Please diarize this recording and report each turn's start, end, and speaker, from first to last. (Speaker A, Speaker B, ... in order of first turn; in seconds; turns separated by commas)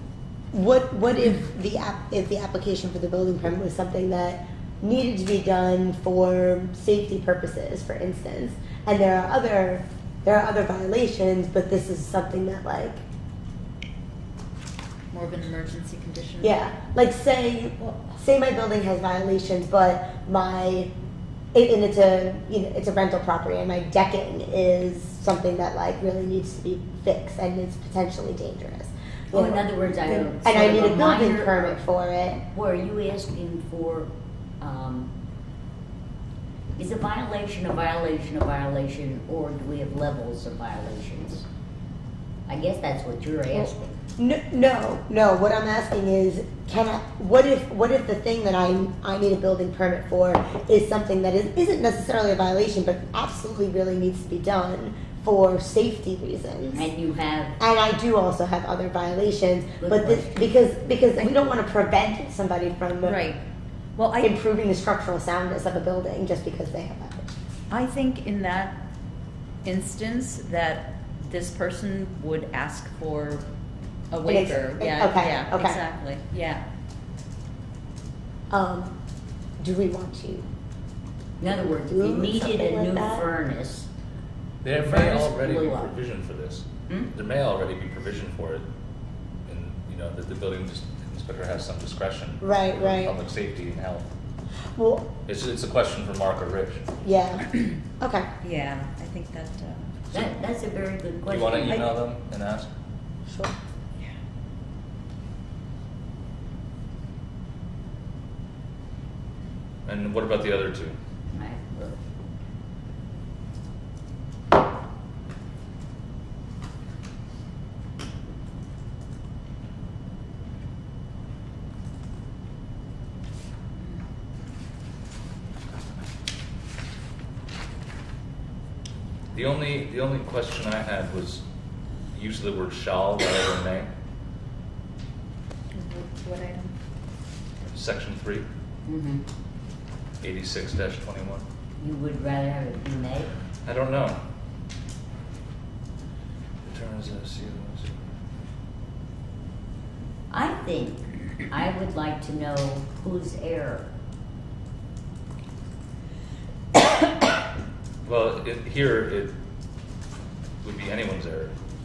Speaker A: 0.5-13.0, Speaker B: 15.1-16.6, Speaker A: 16.4-20.9, Speaker B: 17.8-18.1, Speaker A: 21.5-32.4, Speaker C: 29.3-31.8, Speaker C: 32.5-34.1, Speaker C: 34.6-35.1, Speaker C: 36.8-41.5, Speaker C: 42.5-44.0, Speaker A: 43.5-56.9, Speaker C: 56.7-57.6, Speaker A: 57.6-63.2, Speaker C: 59.8-60.5, Speaker B: 63.0-63.4, Speaker B: 64.0-64.3, Speaker A: 64.2-67.3, Speaker B: 67.7-68.8, Speaker B: 69.6-73.5, Speaker B: 74.1-76.6, Speaker A: 74.2-75.8, Speaker A: 78.5-79.0, Speaker A: 79.6-80.4, Speaker C: 81.4-83.9, Speaker A: 81.5-83.2, Speaker D: 84.6-88.6, Speaker C: 84.8-85.9, Speaker D: 89.5-94.1, Speaker A: 92.4-93.2, Speaker A: 94.8-95.1, Speaker D: 95.2-96.8, Speaker A: 97.0-98.3, Speaker B: 98.4-100.3, Speaker C: 100.1-101.9, Speaker D: 101.3-102.7, Speaker D: 109.8-111.0, Speaker C: 111.3-112.0, Speaker D: 129.3-131.4, Speaker D: 132.1-133.9, Speaker B: 135.7-136.7, Speaker D: 137.7-138.4, Speaker C: 138.8-139.2, Speaker D: 140.2-141.4, Speaker C: 141.8-143.3, Speaker D: 143.6-144.2, Speaker D: 146.6-148.1, Speaker C: 150.3-153.9, Speaker D: 158.0-159.3, Speaker D: 160.6-161.5